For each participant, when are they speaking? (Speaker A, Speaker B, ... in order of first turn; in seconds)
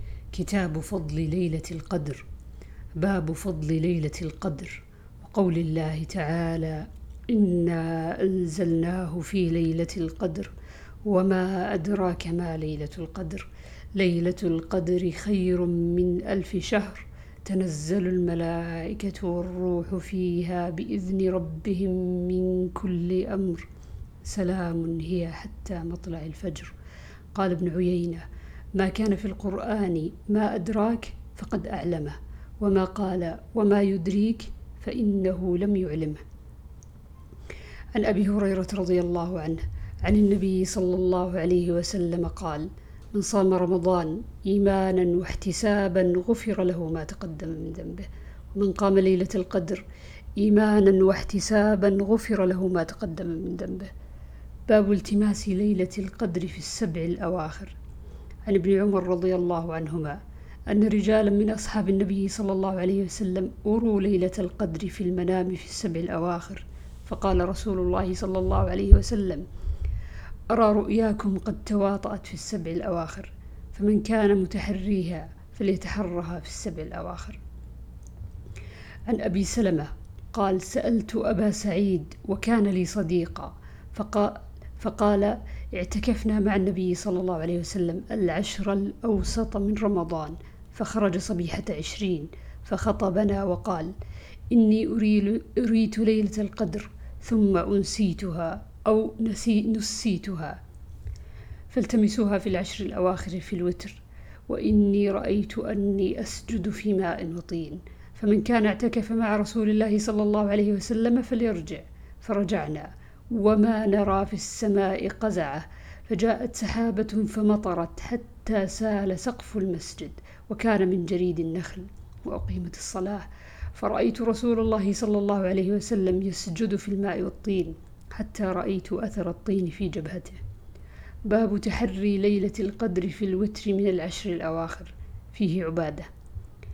Speaker A: 0.3-2.2, 3.0-10.5, 11.1-23.7, 24.2-26.7, 27.3-28.2, 28.8-36.2, 38.0-49.8, 50.4-53.9, 54.7-57.8, 58.5-60.2, 60.7-69.5, 70.5-77.4, 79.1-93.9, 94.5-100.6, 101.7-130.4, 131.3-136.1